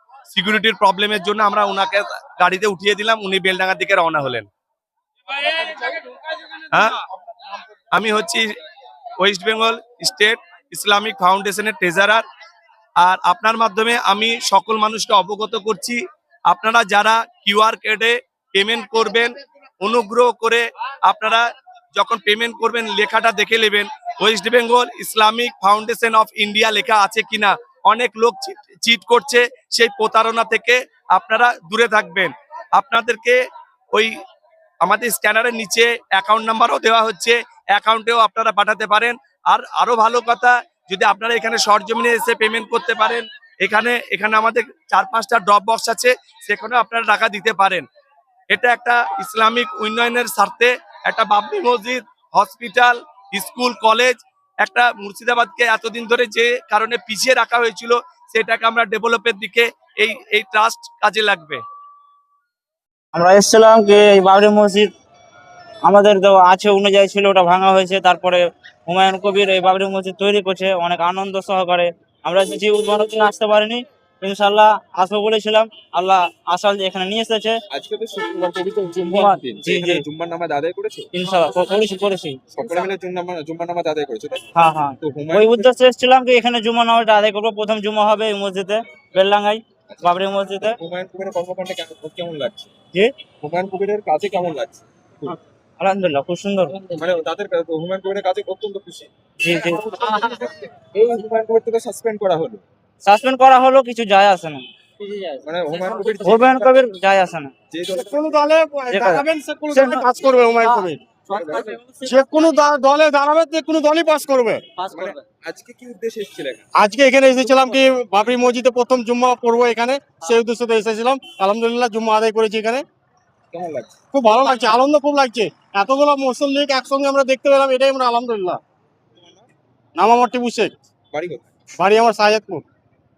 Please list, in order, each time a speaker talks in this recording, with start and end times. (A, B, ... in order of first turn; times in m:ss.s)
0:00.3-0:04.5 A
0:07.9-0:08.5 A
0:09.2-0:12.2 A
0:13.0-0:33.4 A
0:34.8-0:47.8 A
0:48.5-1:01.6 A
1:03.1-1:04.9 B
1:05.8-1:17.6 B
1:17.7-1:21.1 C
1:19.0-1:20.0 B
1:21.1-1:22.4 B
1:22.5-1:24.4 C
1:24.5-1:30.8 B
1:25.0-1:25.7 C
1:30.6-1:32.7 C
1:33.4-1:35.4 C
1:35.8-1:36.9 B
1:36.9-1:39.1 C
1:39.4-1:40.3 B
1:40.0-1:42.6 C
1:43.0-1:45.4 B
1:45.4-1:46.7 C
1:46.0-1:47.5 B
1:47.7-1:48.4 C
1:47.9-1:51.0 D
1:48.9-1:50.0 B
1:50.6-1:52.0 B
1:51.3-1:51.8 C
1:52.0-1:54.6 D
1:54.9-1:55.2 B
1:54.9-1:56.6 C
1:56.8-2:02.8 D
2:03.5-2:04.0 C
2:04.1-2:08.6 D
2:09.2-2:09.5 C
2:10.0-2:10.7 D
2:11.1-2:11.4 C
2:11.8-2:12.6 D